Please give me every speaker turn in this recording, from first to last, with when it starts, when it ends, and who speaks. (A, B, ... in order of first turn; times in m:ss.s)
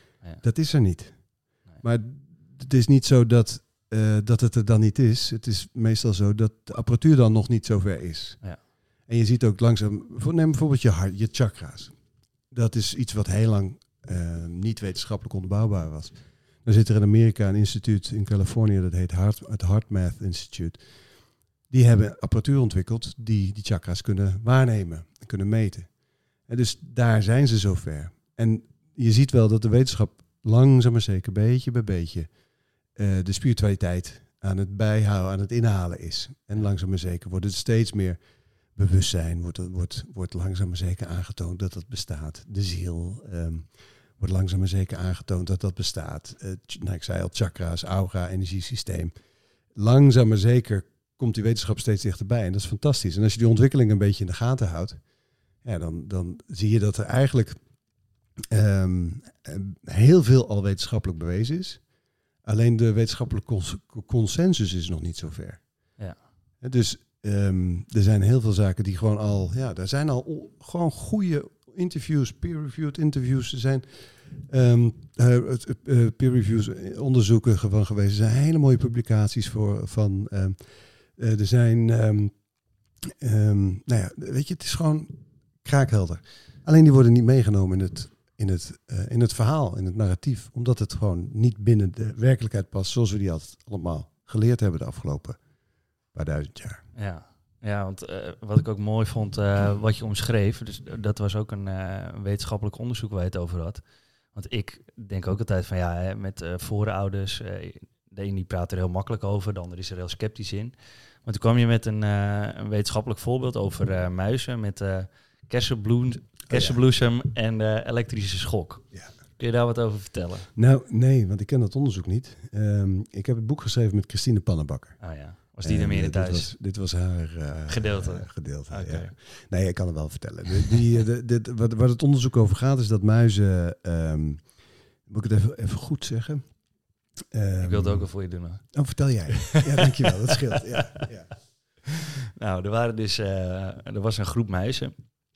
0:00.4-0:01.2 A
0:01.8-0:08.4 A
0:09.1-0:11.9 A
0:12.5-0:20.8 A
0:21.7-0:25.9 A
0:26.5-0:32.3 A
0:33.0-0:38.2 A
0:38.8-0:43.7 A
0:44.2-0:49.1 A
0:49.8-0:55.0 A
0:55.6-0:57.6 A
0:58.5-1:01.8 A
1:02.4-1:05.6 A
1:06.6-1:20.6 A
1:21.2-1:22.3 A
1:23.2-1:35.4 A
1:36.1-1:36.8 A
1:36.9-1:43.8 B
1:44.3-1:58.8 B
1:56.5-1:56.8 A
1:59.4-2:00.5 B
2:00.5-2:05.0 A
2:05.0-2:06.5 B
2:05.6-2:14.4 A
2:07.7-2:09.1 B
2:15.1-2:16.4 A
2:17.3-2:18.1 A
2:17.6-2:18.6 B
2:18.7-2:21.3 A
2:19.4-2:21.0 B
2:22.4-2:24.9 B